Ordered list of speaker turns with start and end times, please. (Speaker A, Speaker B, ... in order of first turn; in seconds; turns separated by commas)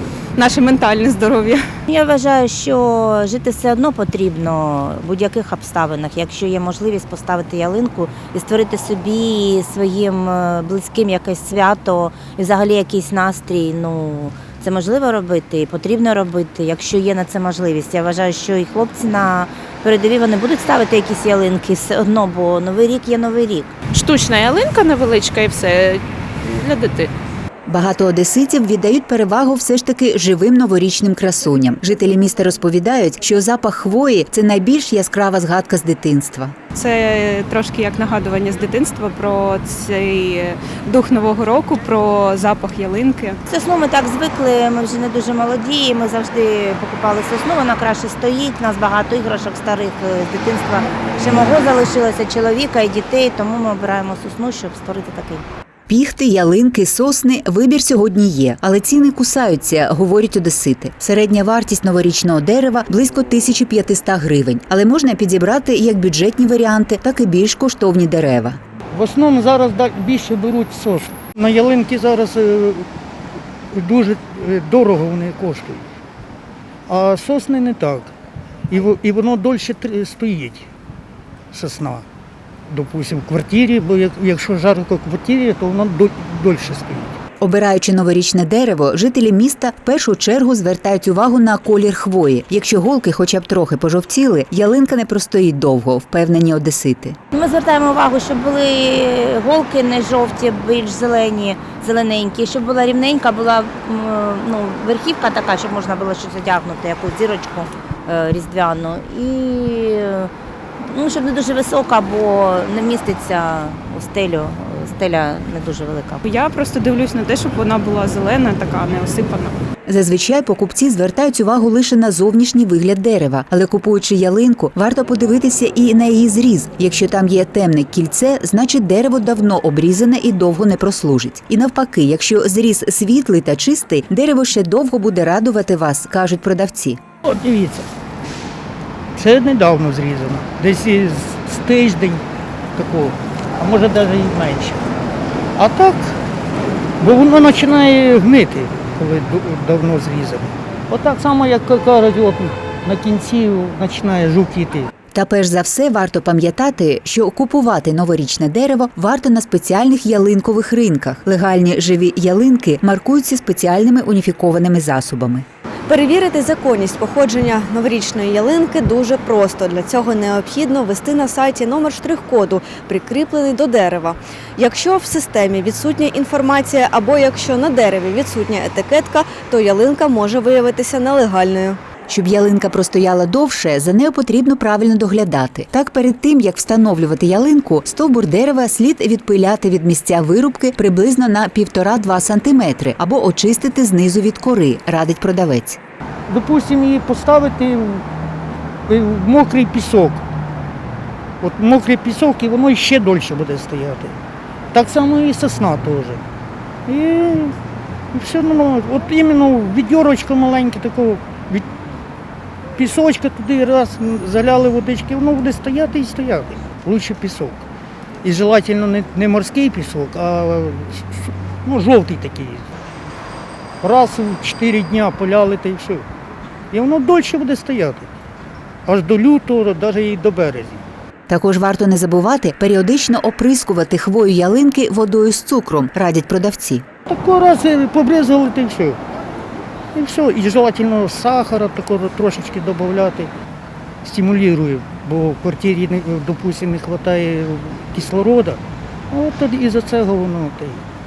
Speaker A: 0.4-1.6, Speaker B: 1.9-23.7, Speaker C: 23.9-27.1, Speaker D: 27.7-36.5, Speaker A: 36.8-43.4, Speaker B: 43.5-55.4, Speaker D: 55.9-68.6, Speaker E: 68.9-72.9, Speaker E: 73.7-75.8, Speaker E: 76.9-78.1, Speaker E: 78.7-80.7, Speaker E: 81.5-82.0, Speaker E: 82.7-87.2, Speaker D: 87.4-97.2, Speaker B: 97.3-116.2, Speaker A: 116.3-119.5, Speaker D: 119.9-137.0, Speaker E: 137.2-137.9, Speaker E: 139.2-142.2, Speaker E: 142.8-144.8, Speaker E: 145.6-146.2, Speaker E: 147.0-154.9, Speaker D: 155.1-165.4, Speaker F: 165.9-181.8, Speaker D: 182.1-195.8, Speaker E: 196.3-198.1, Speaker E: 198.9-200.2, Speaker E: 201.4-204.2, Speaker E: 204.7-206.2, Speaker E: 206.9-207.6, Speaker E: 208.1-211.7, Speaker E: 212.8-217.7, Speaker E: 218.2-222.7, Speaker E: 223.8-226.1, Speaker E: 226.7-228.1, Speaker E: 228.9-230.8, Speaker D: 231.3-236.8, Speaker E: 237.1-239.0, Speaker E: 239.9-243.3, Speaker E: 244.0-250.8